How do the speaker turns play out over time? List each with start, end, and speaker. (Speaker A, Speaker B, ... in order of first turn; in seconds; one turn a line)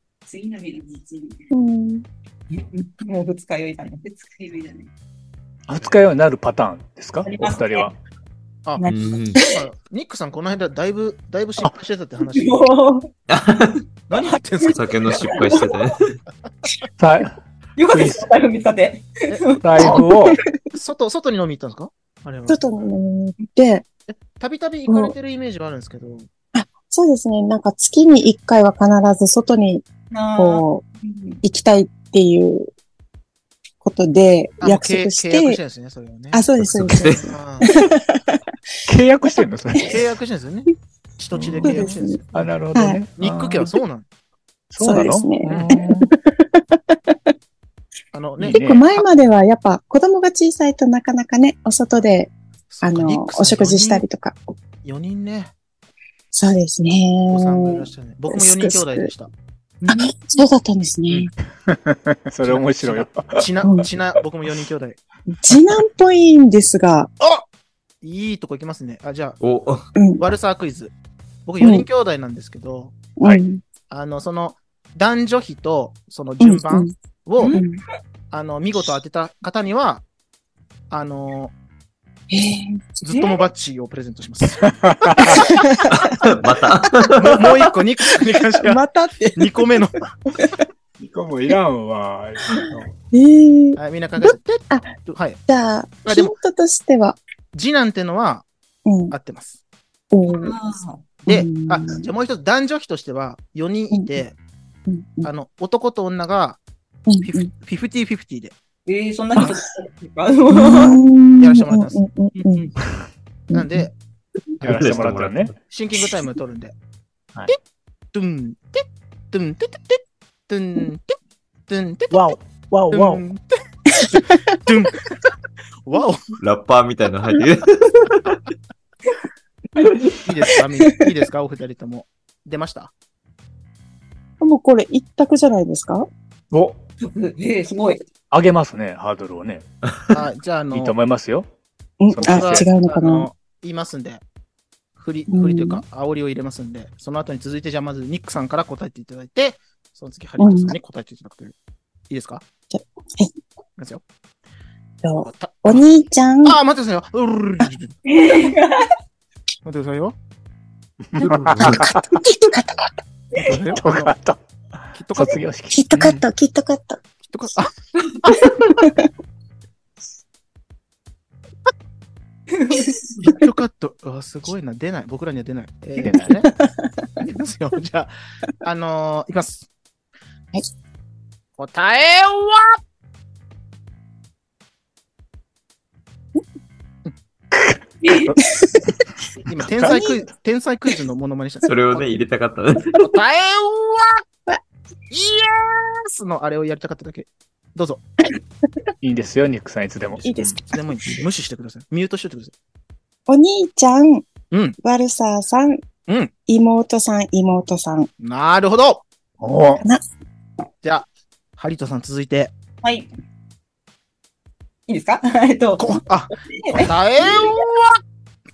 Speaker A: 0.3-1.4
Speaker B: 1.5-2.0
Speaker A: 2.5-4.9
Speaker C: 5.7-7.9
Speaker A: 7.2-7.9
Speaker D: 8.7-12.6
Speaker A: 8.8-9.6
Speaker E: 8.9-9.4
Speaker A: 12.3-13.1
Speaker E: 13.3-13.8
Speaker D: 14.1-14.9
Speaker A: 14.2-15.8
Speaker E: 14.7-16.2
Speaker C: 17.0-17.4
Speaker A: 17.8-20.1
Speaker C: 17.9-18.3
Speaker D: 19.3-19.6
Speaker C: 19.6-20.4
Speaker B: 19.8-20.1
Speaker D: 20.7-22.9
Speaker B: 22.5-23.9
Speaker D: 24.1-26.3
Speaker B: 24.9-25.1
Speaker B: 26.5-29.9
Speaker A: 30.1-31.4
Speaker B: 30.4-30.8
Speaker B: 31.4-32.7
Speaker B: 33.8-35.6
Speaker D: 34.6-36.5
Speaker B: 36.3-38.5
Speaker E: 36.7-37.3
Speaker D: 37.1-37.7
Speaker C: 38.9-40.0
Speaker D: 39.9-42.5
Speaker C: 41.3-43.8
Speaker B: 41.6-42.2
Speaker B: 42.8-43.0
Speaker D: 43.2-44.1
Speaker C: 44.7-46.1
Speaker B: 44.8-47.2
Speaker D: 48.1-49.0
Speaker C: 48.4-48.9
Speaker B: 48.5-54.5
Speaker D: 52.7-54.0
Speaker D: 54.8-55.5
Speaker B: 56.3-59.1
Speaker D: 57.3-60.0
Speaker B: 59.9-61.3
Speaker C: 61.7-63.5
Speaker D: 62.4-65.0
Speaker B: 65.3-67.1
Speaker D: 68.0-69.4
Speaker E: 69.4-69.8
Speaker B: 70.0-70.2
Speaker D: 70.2-70.9
Speaker D: 71.5-73.0
Speaker B: 71.6-71.9
Speaker B: 73.2-73.6
Speaker D: 73.9-77.6
Speaker B: 76.4-76.9
Speaker A: 77.4-77.7
Speaker B: 77.5-77.8
Speaker D: 78.3-80.0
Speaker D: 80.9-81.5
Speaker B: 82.3-83.0
Speaker D: 83.0-84.7
Speaker A: 83.1-83.4
Speaker C: 84.7-85.4
Speaker B: 85.2-86.1
Speaker E: 85.9-87.7
Speaker D: 87.2-88.8
Speaker B: 88.6-89.8
Speaker D: 89.4-90.1
Speaker C: 91.0-92.9
Speaker B: 93.1-95.0
Speaker D: 93.8-95.4
Speaker B: 95.5-97.2
Speaker D: 96.1-96.3
Speaker D: 97.5-98.5
Speaker B: 98.8-99.1
Speaker D: 99.1-99.6
Speaker B: 100.1-100.6
Speaker A: 100.3-101.1
Speaker D: 101.2-104.4
Speaker B: 101.3-102.1
Speaker B: 103.9-104.2
Speaker B: 104.9-105.3
Speaker D: 105.2-106.6
Speaker B: 107.1-107.5
Speaker D: 107.2-108.5
Speaker A: 108.9-111.0
Speaker B: 110.5-112.7
Speaker D: 111.4-112.0
Speaker A: 112.4-112.7
Speaker B: 113.5-113.9
Speaker D: 113.5-113.9
Speaker C: 114.6-115.5
Speaker E: 114.6-115.5
Speaker D: 115.7-116.7
Speaker D: 118.1-121.2
Speaker D: 121.7-122.3
Speaker C: 122.1-123.2
Speaker D: 122.9-125.0
Speaker D: 125.9-126.3
Speaker E: 126.4-128.4
Speaker D: 130.2-132.9
Speaker B: 134.4-136.1
Speaker C: 136.5-136.8
Speaker A: 137.0-138.0
Speaker C: 138.3-139.7
Speaker D: 140.1-140.9
Speaker C: 140.7-141.5
Speaker B: 142.0-143.3
Speaker C: 142.1-142.7
Speaker D: 142.2-144.2
Speaker D: 145.0-151.6
Speaker B: 145.3-145.8
Speaker B: 150.4-150.8
Speaker D: 152.1-152.4
Speaker B: 152.7-153.3
Speaker D: 153.8-154.0
Speaker B: 155.0-156.6
Speaker D: 155.2-155.9
Speaker D: 156.4-158.0
Speaker A: 158.1-158.9
Speaker D: 159.7-160.2
Speaker C: 161.1-162.3
Speaker E: 161.2-161.9
Speaker B: 161.6-162.9
Speaker D: 163.4-164.2
Speaker C: 163.7-164.4
Speaker D: 164.9-165.4
Speaker C: 165.2-166.2
Speaker B: 165.7-167.0
Speaker D: 167.2-168.5
Speaker A: 172.5-173.2
Speaker D: 173.2-176.5
Speaker C: 176.0-176.3
Speaker B: 176.4-177.1
Speaker D: 177.2-179.7
Speaker D: 181.6-182.8
Speaker C: 187.5-188.4
Speaker A: 188.0-188.3
Speaker B: 188.6-188.8
Speaker D: 189.4-192.2
Speaker C: 189.6-190.0
Speaker B: 189.8-190.2
Speaker E: 191.7-193.0
Speaker D: 192.9-194.2
Speaker D: 195.1-198.0
Speaker C: 199.0-200.6
Speaker B: 200.2-200.6
Speaker D: 200.6-202.5
Speaker B: 203.3-204.3
Speaker D: 204.5-204.8
Speaker B: 204.8-205.8
Speaker D: 206.1-206.3
Speaker B: 206.5-208.1
Speaker D: 208.2-209.1
Speaker C: 209.4-209.8
Speaker D: 211.6-212.6
Speaker A: 212.8-213.1
Speaker A: 214.9-217.5
Speaker D: 215.8-217.9